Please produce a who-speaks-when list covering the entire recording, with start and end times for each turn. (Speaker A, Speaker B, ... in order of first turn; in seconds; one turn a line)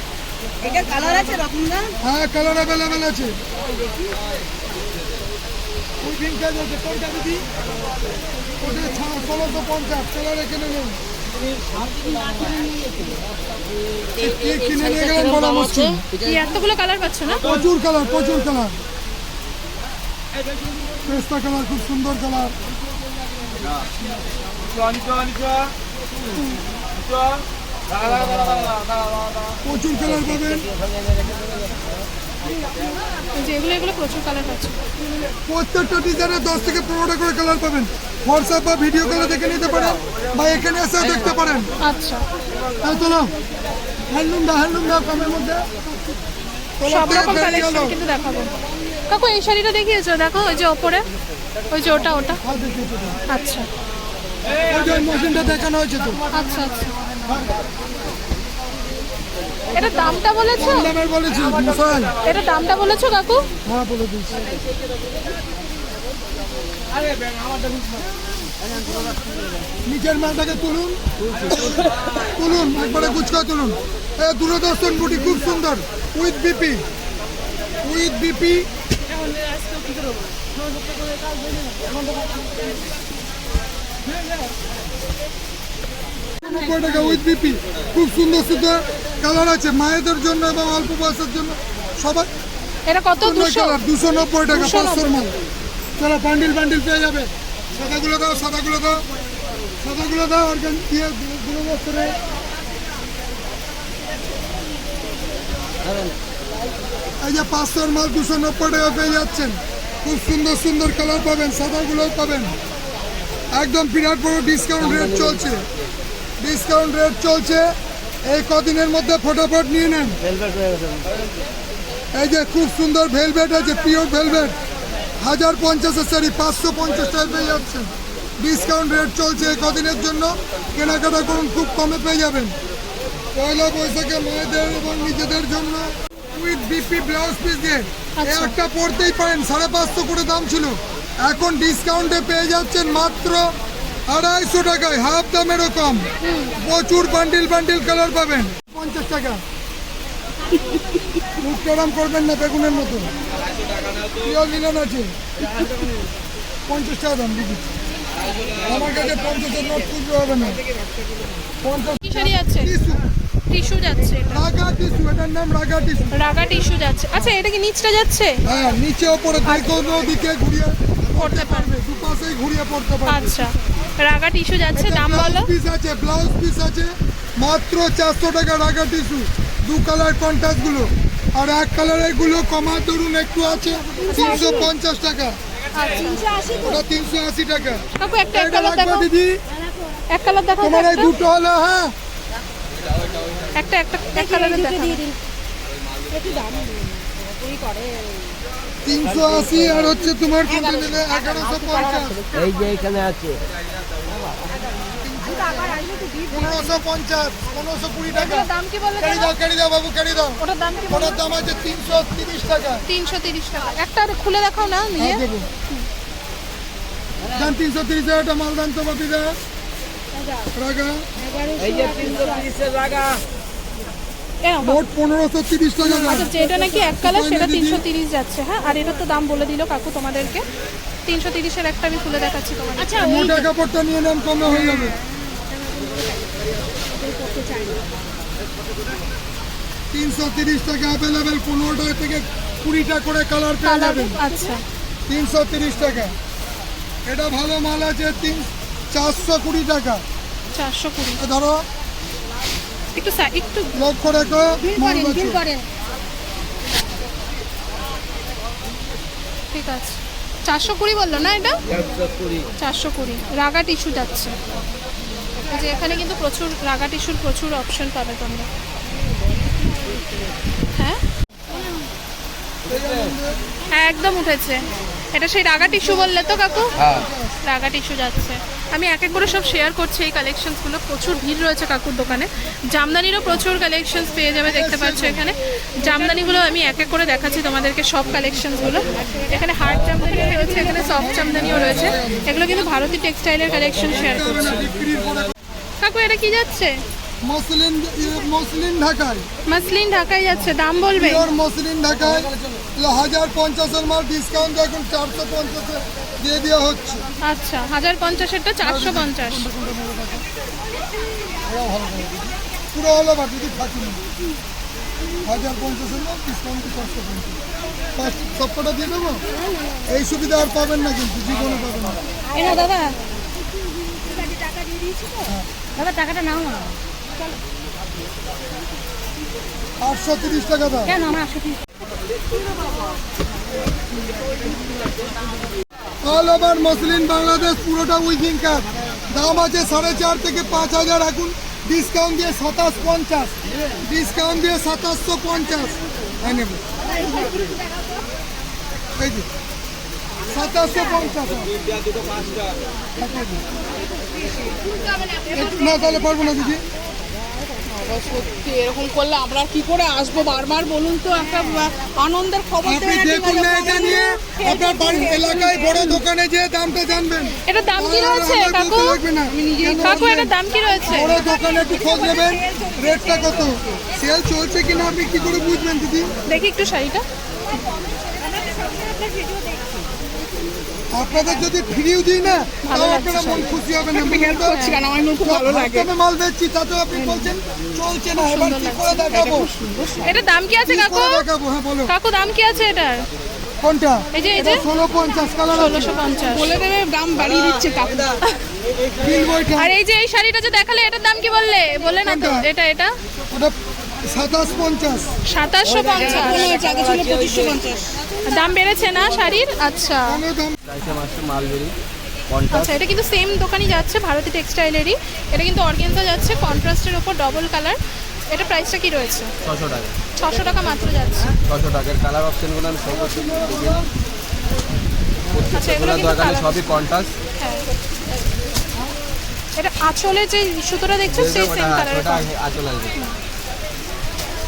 Speaker A: 0.6-1.9
Speaker B: 2.0-3.4
Speaker B: 6.0-7.5
Speaker B: 8.6-11.0
Speaker B: 14.2-16.1
Speaker C: 15.2-15.4
Speaker D: 16.2-17.4
Speaker B: 17.4-18.8
Speaker B: 21.1-22.6
Speaker D: 26.4-26.6
Speaker C: 27.9-28.8
Speaker B: 29.6-30.7
Speaker C: 30.3-31.4
Speaker D: 33.4-34.8
Speaker B: 35.5-41.7
Speaker D: 41.8-42.2
Speaker B: 42.8-43.3
Speaker B: 44.1-45.6
Speaker B: 46.8-48.0
Speaker D: 46.9-48.5
Speaker D: 49.1-51.0
Speaker D: 51.7-52.4
Speaker B: 52.4-53.2
Speaker D: 53.3-53.7
Speaker B: 54.6-56.2
Speaker D: 56.3-56.9
Speaker D: 59.7-60.9
Speaker B: 60.6-62.1
Speaker D: 62.2-63.5
Speaker B: 63.6-64.5
Speaker B: 69.9-71.0
Speaker C: 71.3-71.9
Speaker B: 72.3-76.8
Speaker B: 77.8-78.7
Speaker B: 86.4-92.3
Speaker D: 92.9-93.8
Speaker B: 93.2-95.3
Speaker D: 94.5-95.1
Speaker B: 96.0-99.0
Speaker B: 99.8-102.2
Speaker C: 105.8-106.1
Speaker B: 107.2-112.6
Speaker B: 113.5-115.7
Speaker C: 114.8-115.5
Speaker B: 116.4-117.7
Speaker B: 118.3-120.2
Speaker C: 120.2-121.1
Speaker B: 122.1-124.6
Speaker B: 125.2-132.6
Speaker B: 133.3-143.5
Speaker D: 138.2-138.5
Speaker B: 144.1-146.1
Speaker D: 146.2-146.5
Speaker B: 146.6-149.4
Speaker B: 151.4-153.1
Speaker B: 154.2-155.2
Speaker B: 156.7-157.7
Speaker C: 158.3-158.6
Speaker B: 158.6-160.6
Speaker B: 161.6-163.0
Speaker D: 162.0-162.8
Speaker D: 163.5-164.4
Speaker B: 164.3-166.2
Speaker D: 166.1-168.4
Speaker B: 168.5-173.3
Speaker D: 169.4-169.7
Speaker D: 171.1-171.7
Speaker D: 173.1-175.5
Speaker B: 174.8-185.4
Speaker A: 184.0-184.7
Speaker D: 184.1-184.7
Speaker D: 185.7-186.2
Speaker A: 185.9-186.8
Speaker B: 186.6-189.4
Speaker D: 187.9-189.1
Speaker A: 189.5-190.0
Speaker D: 190.1-191.1
Speaker B: 190.6-191.9
Speaker C: 192.8-193.6
Speaker D: 193.6-195.0
Speaker A: 194.1-195.2
Speaker C: 196.1-196.6
Speaker A: 196.1-198.4
Speaker B: 198.8-202.2
Speaker A: 200.5-202.5
Speaker C: 202.3-203.4
Speaker B: 205.0-205.8
Speaker A: 205.2-206.8
Speaker B: 206.3-212.9
Speaker D: 208.1-209.3
Speaker D: 210.4-211.2
Speaker D: 212.9-215.9
Speaker B: 215.0-215.5
Speaker B: 217.3-219.4
Speaker A: 220.2-220.5
Speaker B: 220.5-221.1
Speaker A: 221.2-222.5
Speaker C: 221.6-223.2
Speaker D: 224.4-224.8
Speaker B: 224.6-226.3
Speaker D: 225.8-230.4
Speaker B: 227.0-227.8
Speaker D: 231.1-233.4
Speaker A: 232.8-233.3
Speaker B: 233.0-235.0
Speaker A: 234.7-238.0
Speaker B: 239.9-244.2
Speaker D: 243.6-244.6
Speaker A: 244.2-244.6
Speaker B: 245.1-246.1
Speaker B: 247.1-250.0
Speaker D: 250.5-251.2
Speaker B: 251.2-251.6
Speaker D: 252.9-253.7
Speaker B: 253.8-255.4
Speaker A: 254.6-255.7
Speaker D: 259.5-261.6
Speaker C: 261.7-262.5
Speaker D: 262.6-264.4
Speaker D: 265.5-268.5
Speaker D: 270.8-271.0
Speaker B: 272.6-273.4
Speaker C: 272.7-273.1
Speaker D: 273.7-276.8
Speaker B: 275.5-277.4
Speaker C: 276.8-277.1
Speaker D: 277.4-294.6
Speaker B: 284.5-286.2
Speaker A: 289.9-291.5
Speaker B: 290.9-292.5
Speaker B: 293.9-295.3
Speaker D: 295.8-296.8
Speaker B: 297.2-299.3
Speaker D: 299.5-301.3
Speaker B: 300.3-307.0
Speaker D: 307.2-309.5
Speaker B: 308.6-310.2
Speaker B: 311.5-314.0
Speaker B: 315.2-317.4
Speaker B: 318.0-319.2
Speaker A: 319.4-319.8
Speaker B: 319.9-322.0
Speaker A: 322.3-322.8
Speaker D: 322.4-322.9
Speaker A: 323.8-326.8
Speaker B: 329.8-330.9
Speaker A: 330.9-331.6
Speaker B: 336.0-346.6
Speaker A: 346.9-347.6
Speaker B: 349.0-349.3
Speaker B: 350.3-351.5
Speaker C: 351.8-352.6
Speaker B: 353.0-353.4
Speaker A: 354.4-355.8
Speaker B: 355.3-356.6
Speaker E: 357.8-364.5
Speaker B: 362.6-370.3
Speaker A: 364.5-365.8
Speaker D: 367.5-369.0
Speaker E: 369.3-370.0
Speaker D: 369.7-371.3
Speaker A: 370.7-373.8
Speaker B: 370.9-376.1
Speaker D: 376.3-377.0
Speaker A: 377.5-380.1
Speaker B: 380.9-389.5
Speaker D: 382.6-383.5
Speaker E: 383.9-385.8
Speaker D: 384.2-384.9
Speaker E: 387.0-387.2
Speaker D: 388.1-391.3
Speaker E: 389.2-390.1
Speaker B: 390.7-391.9
Speaker D: 391.9-393.1
Speaker B: 393.6-396.4
Speaker D: 394.1-394.7
Speaker D: 395.5-396.6
Speaker E: 396.4-398.2
Speaker B: 399.0-399.8
Speaker D: 399.5-402.9
Speaker B: 402.0-402.5
Speaker B: 404.1-405.1
Speaker D: 405.3-406.6
Speaker E: 405.8-408.0
Speaker A: 405.9-407.8
Speaker D: 408.2-410.2
Speaker B: 410.1-410.6
Speaker C: 410.7-411.8
Speaker C: 412.3-412.8
Speaker D: 412.5-417.8
Speaker D: 418.3-419.3
Speaker C: 419.4-419.9
Speaker D: 420.2-421.4
Speaker C: 421.5-423.9
Speaker B: 423.0-423.9
Speaker C: 425.3-427.1
Speaker D: 425.5-426.7
Speaker D: 427.4-427.6
Speaker D: 429.6-432.3
Speaker C: 431.1-433.0